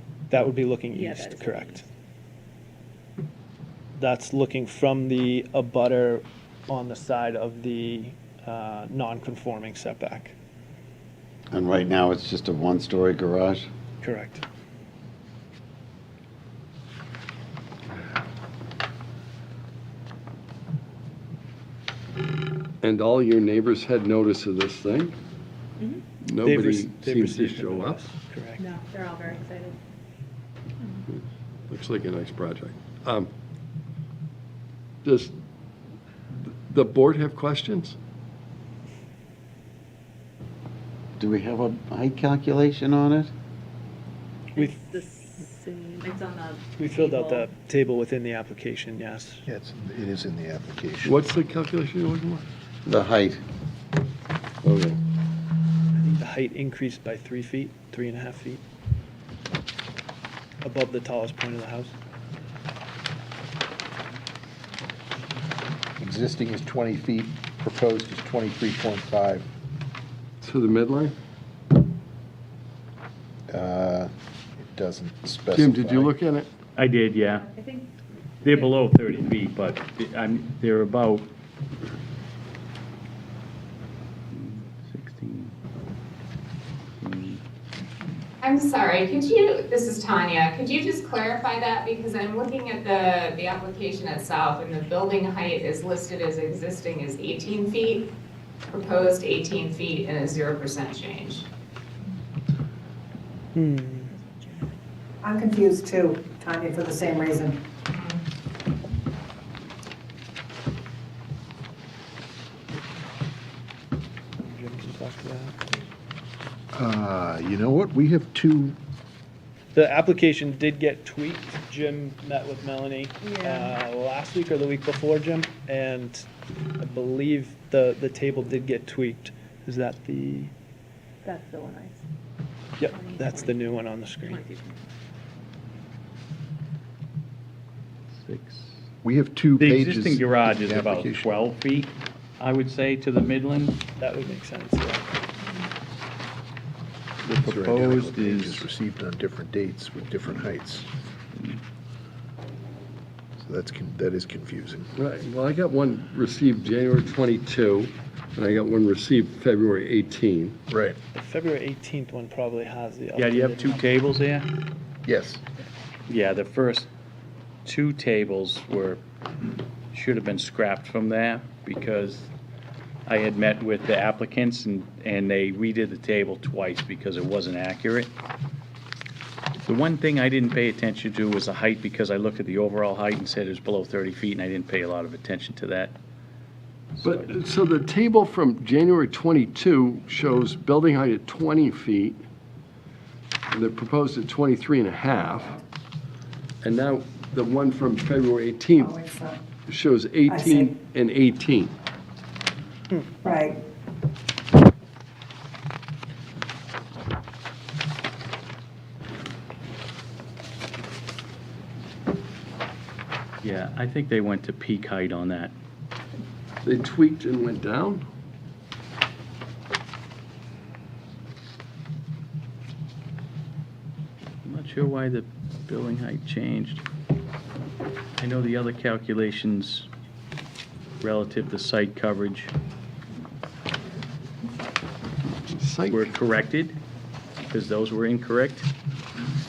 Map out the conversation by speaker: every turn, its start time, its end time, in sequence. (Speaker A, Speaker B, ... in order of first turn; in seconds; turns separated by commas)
Speaker A: 0.3-1.8, Speaker B: 0.9-1.9, Speaker A: 4.0-10.4, Speaker C: 11.5-13.7, Speaker A: 14.0-14.4, Speaker D: 22.8-25.2, Speaker D: 26.2-28.1, Speaker A: 26.4-28.7, Speaker B: 28.6-29.8, Speaker D: 31.1-33.3, Speaker D: 35.0-35.3, Speaker D: 36.3-38.0, Speaker C: 41.2-43.3, Speaker A: 44.5-45.0, Speaker B: 44.5-47.5, Speaker A: 46.8-49.4, Speaker E: 49.5-51.2, Speaker D: 51.0-52.4, Speaker C: 52.8-53.4, Speaker D: 54.6-55.0, Speaker A: 55.9-58.6, Speaker A: 60.6-62.0, Speaker E: 66.0-69.5, Speaker D: 70.4-71.1, Speaker E: 73.5-76.1, Speaker D: 75.5-76.5, Speaker F: 76.8-77.5, Speaker B: 77.4-77.9, Speaker F: 78.4-81.3, Speaker F: 84.3-85.5, Speaker F: 87.0-87.4, Speaker G: 88.4-98.1, Speaker G: 98.7-101.5, Speaker A: 103.5-104.1, Speaker B: 103.7-104.6, Speaker H: 105.2-107.6, Speaker A: 114.4-115.7, Speaker E: 116.7-118.8, Speaker A: 119.7-130.5, Speaker B: 123.2-123.8, Speaker B: 131.2-132.0, Speaker A: 132.8-134.5, Speaker B: 132.8-134.8, Speaker F: 138.1-138.7, Speaker E: 139.0-141.3, Speaker F: 139.6-143.8, Speaker A: 144.0-145.1, Speaker F: 147.2-148.7, Speaker E: 147.4-150.9, Speaker E: 153.4-154.9, Speaker D: 154.9-160.6, Speaker E: 160.7-161.0, Speaker A: 161.1-164.1, Speaker F: 163.2-164.5, Speaker E: 165.1-165.4, Speaker F: 166.1-166.9, Speaker F: 167.6-169.0, Speaker F: 169.9-172.3, Speaker F: 173.1-178.1, Speaker F: 179.6-185.9, Speaker F: 187.0-187.3, Speaker D: 187.0-192.2, Speaker D: 193.5-195.6, Speaker D: 196.6-199.1, Speaker H: 198.8-199.3, Speaker D: 199.7-201.7, Speaker H: 200.3-200.6, Speaker H: 203.2-203.6, Speaker F: 213.4-215.5, Speaker D: 216.6-218.0, Speaker F: 224.4-226.8, Speaker F: 228.2-229.9, Speaker F: 231.0-232.5, Speaker D: 235.5-236.1, Speaker F: 235.9-236.8, Speaker F: 237.5-238.7